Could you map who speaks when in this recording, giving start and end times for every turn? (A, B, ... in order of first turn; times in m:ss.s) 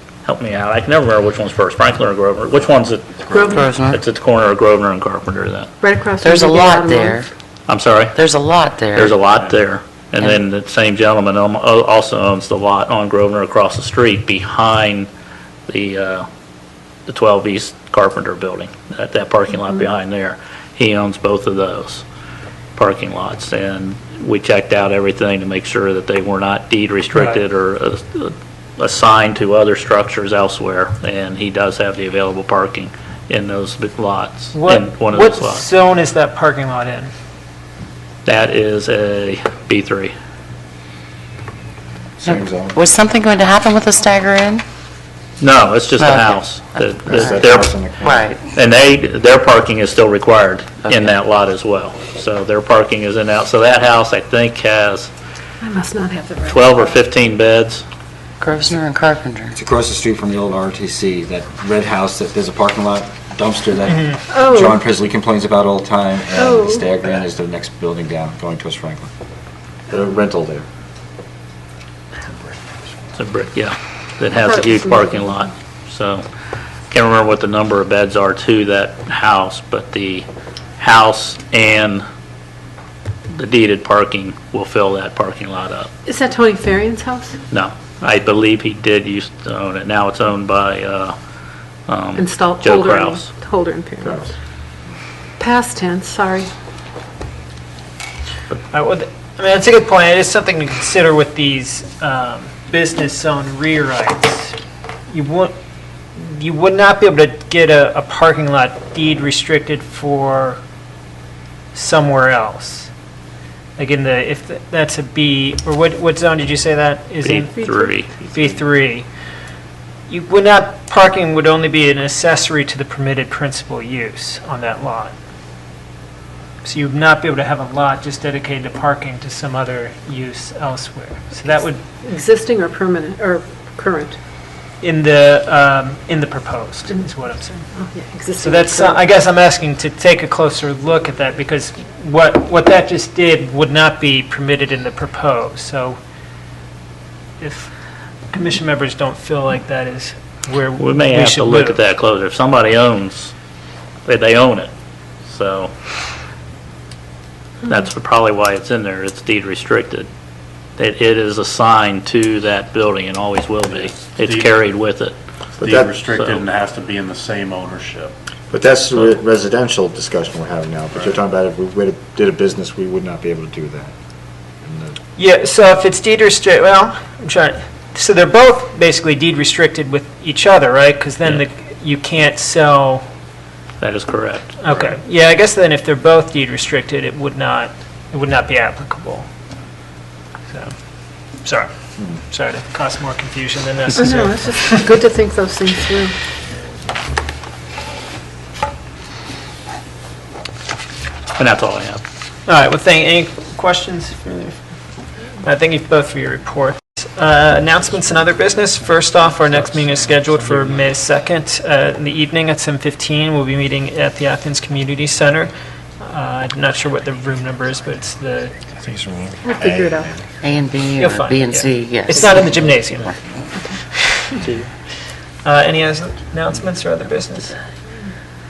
0:00.2-0:05.7 A
0:03.3-0:03.7 B
0:03.5-0:04.0 C
0:05.8-0:07.2 B
0:06.2-0:07.3 C
0:07.7-0:08.2 A
0:08.1-0:09.2 C
0:09.0-0:15.1 A
0:15.7-0:16.3 A
0:17.1-0:22.0 A
0:22.8-0:35.7 A
0:34.5-0:37.1 D
0:38.2-0:40.1 A
0:42.2-0:42.8 E
0:42.2-0:44.6 C
0:45.4-0:55.1 A
0:46.0-0:47.5 C
0:47.1-0:48.3 E
0:48.0-0:48.4 C
0:50.8-0:51.1 C
0:55.6-0:57.0 B
0:56.5-0:57.8 A
0:58.4-0:59.6 C
0:59.6-1:09.1 E
1:03.9-1:04.2 D
1:04.3-1:04.8 B
1:06.4-1:06.9 B
1:09.9-1:10.7 E
1:13.2-1:16.2 A
1:14.4-1:15.5 B
1:16.9-1:20.3 A
1:20.8-1:22.0 A
1:23.3-1:25.9 A
1:26.1-1:27.4 B
1:27.5-1:31.2 A
1:31.9-1:33.3 A
1:32.2-1:34.2 B
1:34.0-1:34.3 E
1:35.4-1:36.5 B
1:38.7-1:44.6 D
1:45.1-1:45.5 D
1:46.2-1:50.6 D
1:51.7-1:52.9 D
1:53.8-1:57.7 D
1:57.2-1:58.1 A
1:57.7-1:58.4 B
1:58.3-1:59.1 D
2:00.1-2:05.2 D
2:06.6-2:11.8 D
2:11.5-2:14.2 B
2:14.8-2:17.6 D
2:17.7-2:19.0 B
2:18.4-2:26.0 D
2:27.4-2:27.7 D
2:28.3-2:31.8 D
2:30.8-2:33.3 A
2:34.1-2:34.7 A
2:35.3-2:35.7 A
2:37.7-2:40.1 A
2:40.8-2:45.2 A
2:43.7-2:44.6 F
2:45.6-2:48.2 F
2:45.6-2:45.9 E
2:46.1-2:46.5 A
2:48.5-2:53.9 E
2:54.6-2:55.0 E
2:55.2-3:03.0 D
3:03.8-3:04.6 A
3:04.6-3:09.3 D
3:10.5-3:10.7 D
3:11.4-3:11.7 D
3:12.2-3:14.8 D
3:13.9-3:16.2 B
3:21.4-3:22.0 A
3:22.5-3:24.6 D
3:25.4-3:38.6 D
3:38.8-3:40.2 E
3:39.4-3:40.1 B
3:40.4-3:42.5 C
3:41.0-3:41.6 D
3:42.2-3:43.1 D
3:45.4-3:47.5 D